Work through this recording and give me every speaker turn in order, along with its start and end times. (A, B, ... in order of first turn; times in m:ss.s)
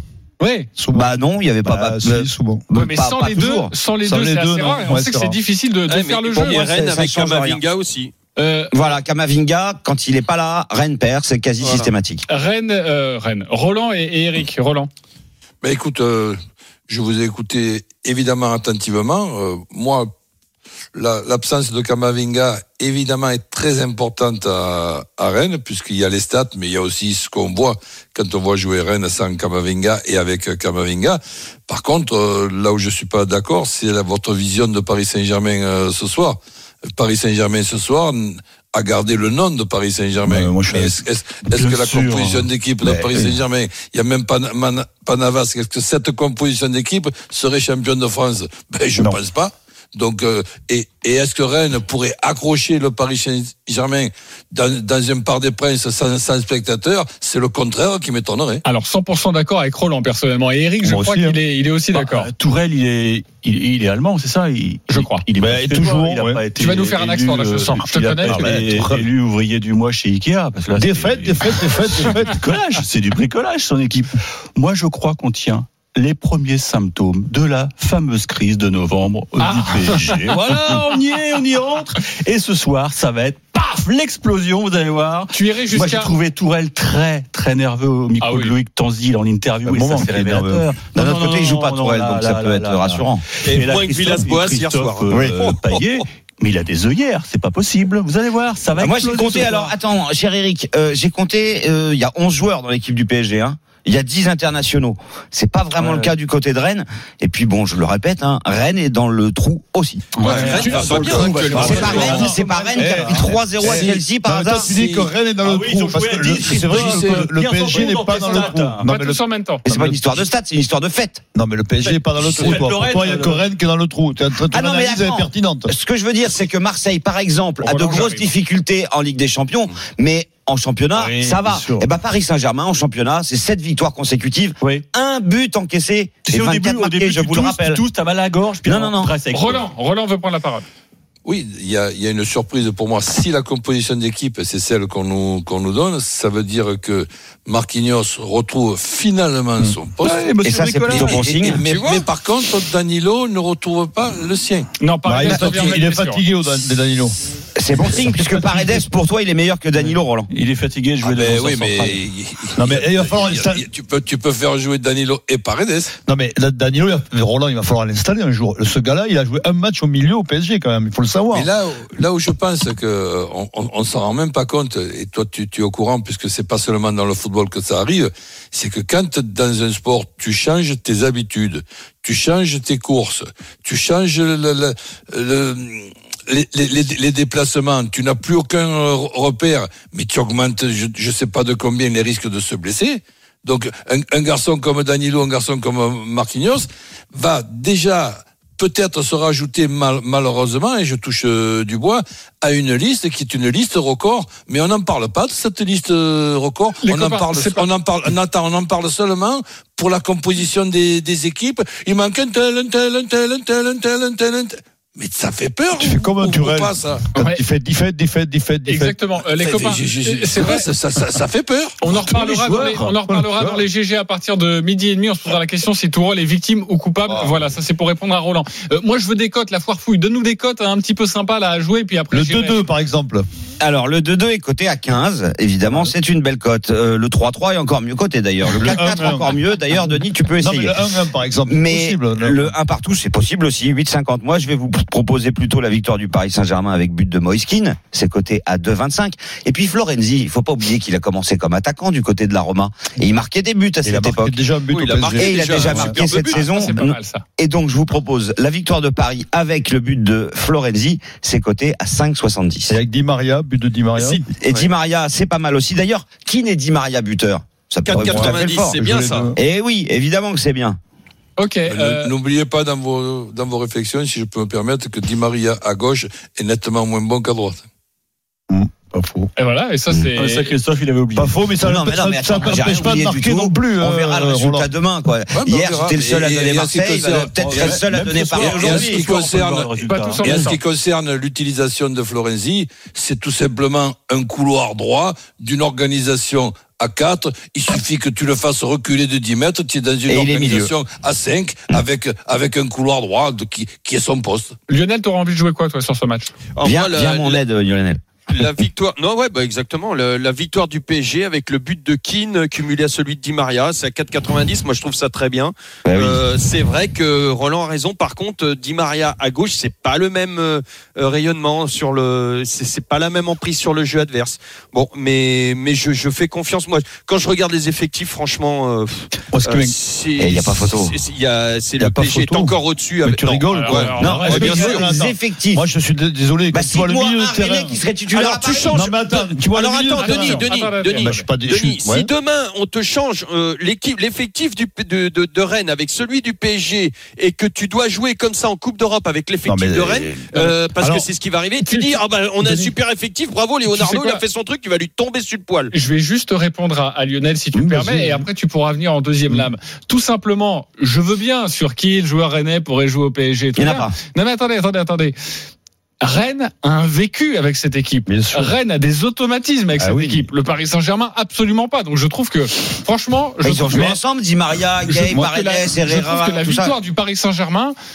0:00.4-0:00.7 A
0:00.8-0:02.6 B
0:00.9-0:03.7 C
0:02.7-0:06.6 A
0:04.0-0:05.4 B
0:05.9-0:08.1 D
0:06.4-0:07.6 C
0:08.4-0:08.7 A
0:08.7-0:12.2 C
0:11.6-0:11.9 D
0:12.3-0:14.9 A
0:15.6-0:20.1 E
0:21.0-0:36.4 E
0:37.0-0:58.6 E
0:40.2-0:41.0 B
0:41.5-0:42.5 F
0:42.8-0:43.4 B
0:58.6-1:02.3 A
1:00.8-1:01.4 B
1:01.9-1:39.7 F
1:04.9-1:05.2 A
1:05.4-1:06.4 B
1:06.6-1:08.6 A
1:08.2-1:09.1 B
1:10.8-1:12.4 B
1:19.4-1:20.2 A
1:25.3-1:26.1 A
1:28.2-1:28.6 A
1:29.6-1:30.7 B
1:30.9-1:33.2 C
1:33.4-1:36.0 D
1:35.1-1:35.4 B
1:38.8-1:50.1 C
1:45.8-1:46.1 F
1:50.2-1:58.9 F
1:50.2-1:52.2 D
1:50.4-1:51.0 A
1:50.9-1:59.2 B
1:51.5-1:52.2 A
1:51.6-1:54.7 C
1:58.8-1:59.7 A
1:59.6-2:01.2 C
2:01.4-2:05.7 B
2:01.8-2:03.5 F
2:04.5-2:17.8 C
2:07.6-2:08.3 A
2:11.0-2:11.6 B
2:11.0-2:11.9 F
2:14.6-2:14.9 F
2:16.2-2:19.7 F
2:18.6-2:19.1 C
2:19.3-2:20.6 A
2:21.2-2:30.3 E
2:30.0-2:31.5 F
2:30.4-2:31.6 C
2:30.9-2:34.7 E
2:31.6-2:32.1 D
2:34.8-2:36.2 A
2:35.0-2:37.2 B
2:35.3-2:35.6 C
2:37.6-2:40.3 C
2:37.8-2:38.7 B
2:39.8-2:42.0 F
2:41.0-2:45.9 E
2:42.6-2:43.7 B
2:46.1-2:51.5 B
2:51.3-3:37.0 E
3:26.8-3:27.7 A
3:35.8-3:39.0 B
3:37.2-3:37.4 A
3:38.7-3:40.6 A
3:39.4-3:41.8 E
3:41.8-3:52.6 A
3:42.1-3:43.0 F
3:43.1-3:43.6 B
3:52.1-3:53.3 B
3:53.6-4:00.8 C
3:55.7-3:55.9 B
3:58.4-4:02.6 B
4:01.5-4:14.4 C
4:13.8-4:16.0 B
4:14.7-4:16.5 D
4:15.2-4:22.8 C
4:16.3-4:17.2 A
4:22.7-4:24.2 B
4:24.0-4:24.7 D
4:24.4-4:28.8 C
4:27.8-4:29.3 D
4:27.9-4:29.4 B
4:29.4-4:30.8 C
4:31.4-4:32.1 A
4:31.7-4:37.6 E
4:38.8-4:39.3 F
4:39.4-4:40.6 A
4:40.1-4:41.5 F
4:41.2-4:44.7 B
4:41.6-4:49.1 C
4:45.3-5:04.6 E
4:47.4-4:50.5 F
4:49.9-4:50.6 A
5:00.1-5:00.7 C
5:04.7-5:06.3 A
5:06.6-5:07.4 D
5:06.6-5:08.0 C
5:08.3-5:34.9 D
5:15.9-5:16.2 C
5:29.3-5:29.7 B
5:30.2-5:31.0 C
5:31.8-5:37.8 B
5:33.5-5:34.8 A
5:34.0-5:35.6 C
5:36.5-5:38.9 C
5:38.1-5:55.7 D
5:38.7-5:42.1 B
5:40.0-5:41.3 A
5:49.4-5:51.1 B
5:51.6-5:52.0 A
5:53.7-5:54.2 A
5:55.7-6:05.2 A
5:57.5-5:58.3 B
6:03.6-6:03.9 C
6:06.0-6:14.0 A
6:08.1-6:08.6 B
6:09.8-6:10.3 B
6:13.4-6:16.7 C
6:14.9-6:15.3 B
6:15.1-6:17.8 A